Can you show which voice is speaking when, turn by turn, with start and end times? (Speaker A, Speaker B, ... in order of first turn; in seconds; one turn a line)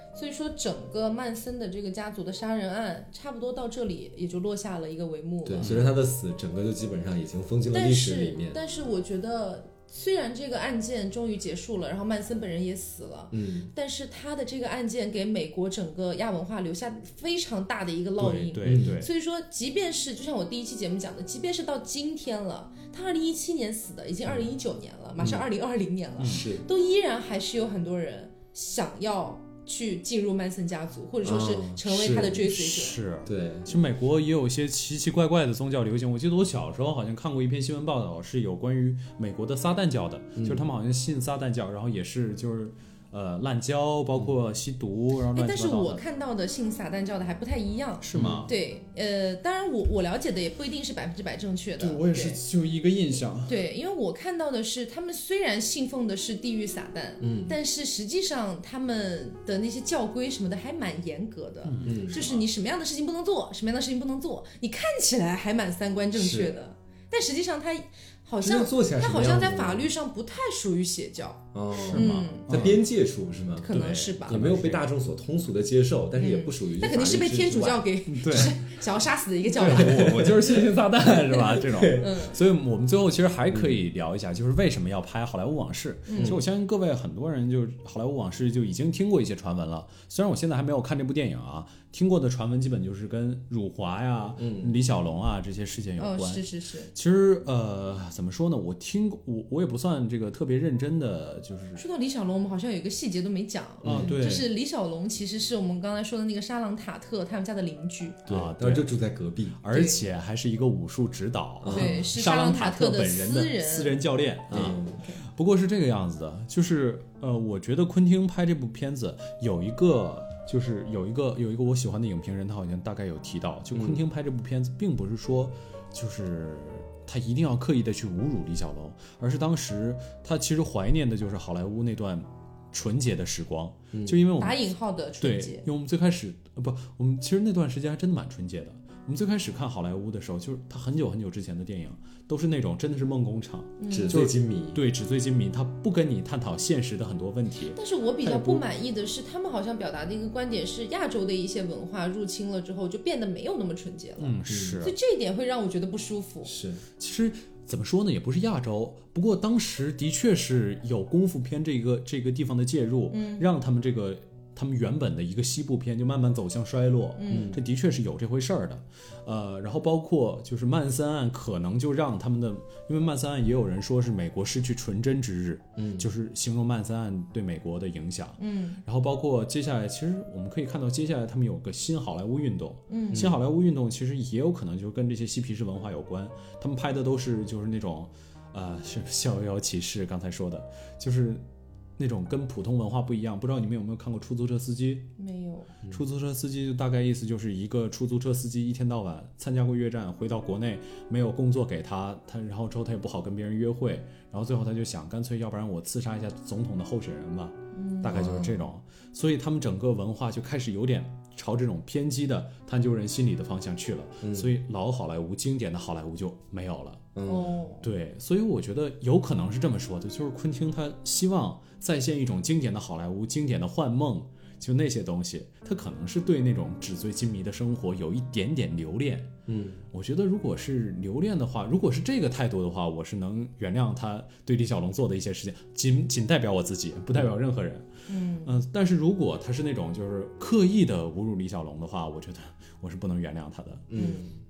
Speaker A: 0.1-5.7
Speaker B: 5.4-8.6
Speaker C: 5.6-5.9
Speaker A: 7.7-33.0
Speaker B: 13.3-13.7
Speaker C: 18.2-19.1
Speaker B: 18.6-19.0
Speaker B: 25.2-25.4
Speaker C: 26.2-26.5
Speaker B: 26.2-26.6
Speaker B: 31.2-32.6
Speaker C: 32.5-46.0
Speaker B: 33.2-33.8
Speaker B: 40.4-40.6
Speaker A: 45.3-52.4
Speaker C: 48.0-48.5
Speaker B: 48.1-48.5
Speaker C: 51.8-53.6
Speaker A: 53.5-72.5
Speaker B: 57.2-57.6
Speaker C: 61.6-62.2
Speaker B: 61.8-62.5
Speaker B: 66.1-66.6
Speaker B: 68.4-69.9
Speaker B: 71.5-73.7
Speaker C: 71.9-72.8
Speaker A: 73.6-74.6
Speaker C: 73.7-74.8
Speaker B: 74.2-78.4
Speaker A: 76.2-80.1
Speaker C: 78.1-78.6
Speaker B: 79.5-82.1
Speaker C: 79.6-101.8
Speaker A: 82.0-82.4
Speaker B: 83.5-83.8
Speaker A: 86.1-86.4
Speaker B: 86.1-86.4
Speaker B: 94.4-94.8
Speaker A: 96.0-96.9
Speaker A: 101.8-108.2
Speaker B: 103.8-104.2
Speaker C: 103.8-104.5
Speaker B: 108.3-109.6
Speaker C: 108.3-109.0
Speaker C: 109.6-134.6
Speaker A: 109.7-110.1
Speaker B: 111.6-112.0
Speaker A: 111.7-114.0
Speaker B: 114.5-115.0
Speaker B: 123.8-124.0
Speaker B: 133.9-134.2
Speaker A: 134.4-135.7
Speaker C: 135.2-148.6
Speaker A: 143.8-144.1
Speaker B: 143.9-144.8
Speaker A: 147.8-156.5
Speaker C: 154.2-154.9
Speaker B: 154.5-154.8
Speaker B: 156.4-156.8
Speaker C: 157.0-191.4
Speaker A: 163.1-163.5
Speaker A: 167.2-167.6
Speaker B: 167.3-167.6
Speaker B: 175.8-176.1
Speaker A: 178.4-178.8
Speaker A: 182.9-183.3
Speaker B: 183.1-183.4
Speaker C: 192.0-195.1
Speaker A: 195.2-195.7
Speaker C: 195.9-217.1
Speaker A: 207.7-208.4
Speaker B: 208.1-208.5
Speaker B: 214.2-214.5
Speaker B: 217.2-217.5
Speaker A: 217.3-217.9
Speaker C: 217.8-229.3
Speaker B: 229.5-229.8
Speaker C: 229.9-237.9
Speaker A: 238.1-238.5
Speaker C: 238.4-243.9
Speaker B: 243.9-244.3
Speaker A: 243.9-244.3